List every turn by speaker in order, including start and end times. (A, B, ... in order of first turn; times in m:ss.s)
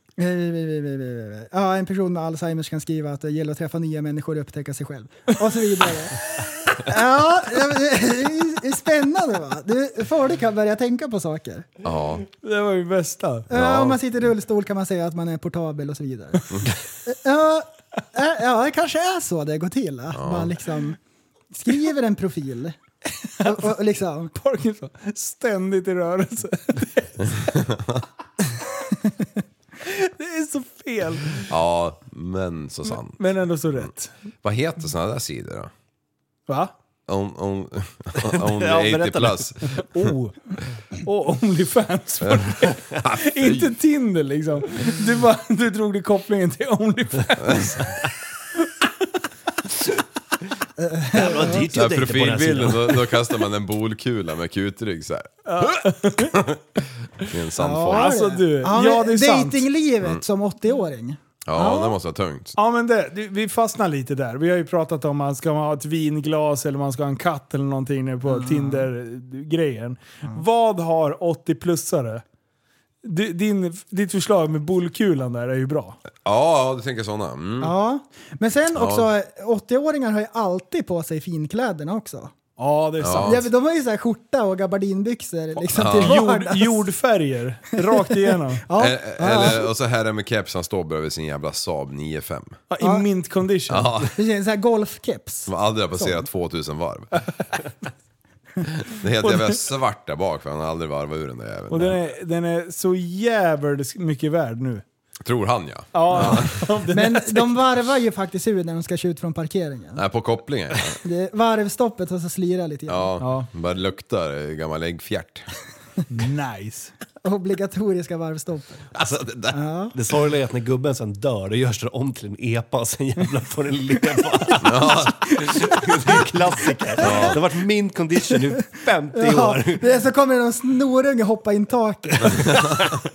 0:00.2-0:11.7 A
0:11.8-0:12.2 B
0:12.2-0:13.5 C
0:13.5-0:14.0 B
0:13.5-0:21.0 A
0:20.1-0:20.6 B
0:21.5-0:22.8 A
0:23.4-0:24.4 A
0:23.4-0:23.7 C
0:24.4-0:27.4 C
0:27.3-0:28.0 B
0:29.8-0:31.5 C
0:31.5-0:33.2 B
0:33.1-0:34.1 C
0:34.4-0:35.7 B
0:37.1-0:40.1 B
0:38.3-0:39.5 D
0:39.9-0:47.9 C
0:42.2-0:43.7 B
0:47.4-0:47.9 B
0:50.8-0:51.6 A
0:51.1-0:53.2 D
0:51.7-0:58.2 B
0:55.5-0:56.4 C
0:57.6-1:01.9 A
0:57.9-0:59.7 C
1:01.5-1:02.6 B
1:02.6-1:12.2 C
1:08.3-1:08.9 A
1:13.0-1:16.0 C
1:16.2-1:17.7 B
1:17.6-1:22.3 A
1:18.7-1:19.1 B
1:22.6-1:23.4 C
1:23.0-1:23.4 B
1:23.2-1:26.9 A
1:25.7-1:26.2 B
1:26.0-1:28.7 C
1:27.8-1:29.7 A
1:28.8-1:32.6 B
1:32.7-1:34.0 C
1:32.8-1:33.1 A
1:33.7-1:34.1 B
1:34.2-1:36.2 A
1:35.5-1:37.1 B
1:38.8-1:42.0 B
1:39.2-1:39.6 C
1:41.7-1:44.8 C
1:45.2-1:46.7 B
1:45.9-1:47.6 C
1:46.9-1:50.0 A
1:50.0-1:51.0 B
1:51.0-1:53.1 A
1:52.9-1:55.5 B
1:53.2-1:53.5 C
1:56.1-1:56.9 C
1:57.2-1:58.9 A
1:58.9-1:59.6 B
1:59.5-1:59.9 A
2:00.0-2:09.8 D
2:04.6-2:05.6 B
2:07.0-2:07.4 B
2:09.2-2:12.6 A
2:12.3-2:12.8 B